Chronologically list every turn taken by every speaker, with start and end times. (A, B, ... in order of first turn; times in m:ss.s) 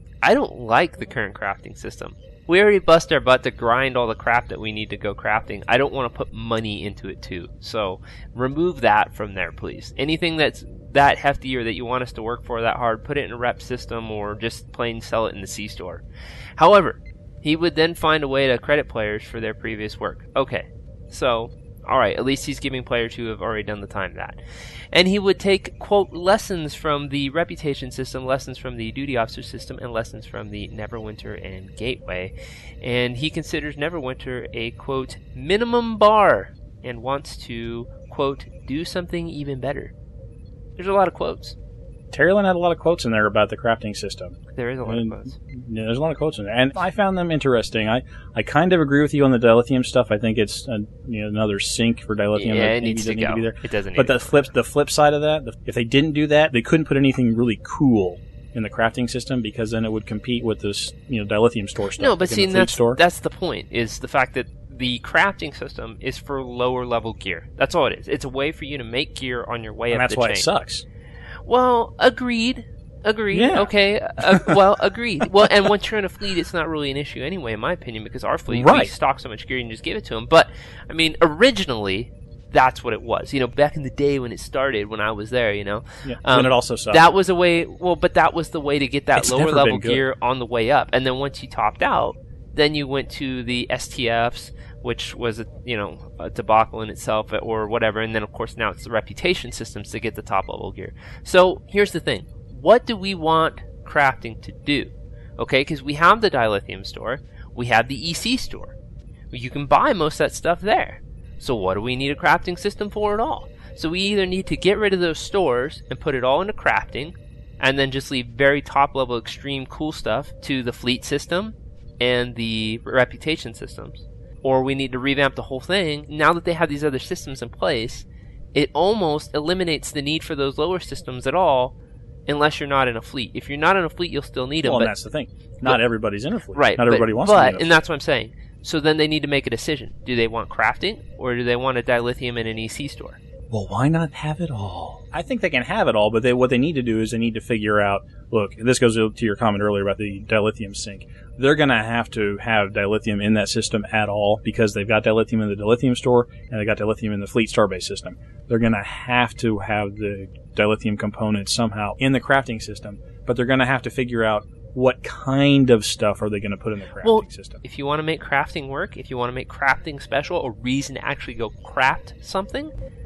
0:00.2-0:16.0 A
0:16.6-0:24.4 A
0:24.9-0:39.9 A
0:40.8-0:41.6 A
0:42.1-1:03.0 B
0:44.5-0:45.4 A
0:52.3-0:54.5 A
1:02.0-1:10.5 A
1:09.9-1:10.8 B
1:11.4-1:48.7 A
1:13.3-1:14.6 B
1:18.5-1:18.9 B
1:26.0-1:27.1 B
1:29.1-1:30.0 B
1:49.3-2:11.7 A
2:12.3-2:14.9 A
2:14.6-2:17.7 B
2:16.5-2:23.2 A
2:23.5-2:47.6 B
2:47.0-2:52.7 A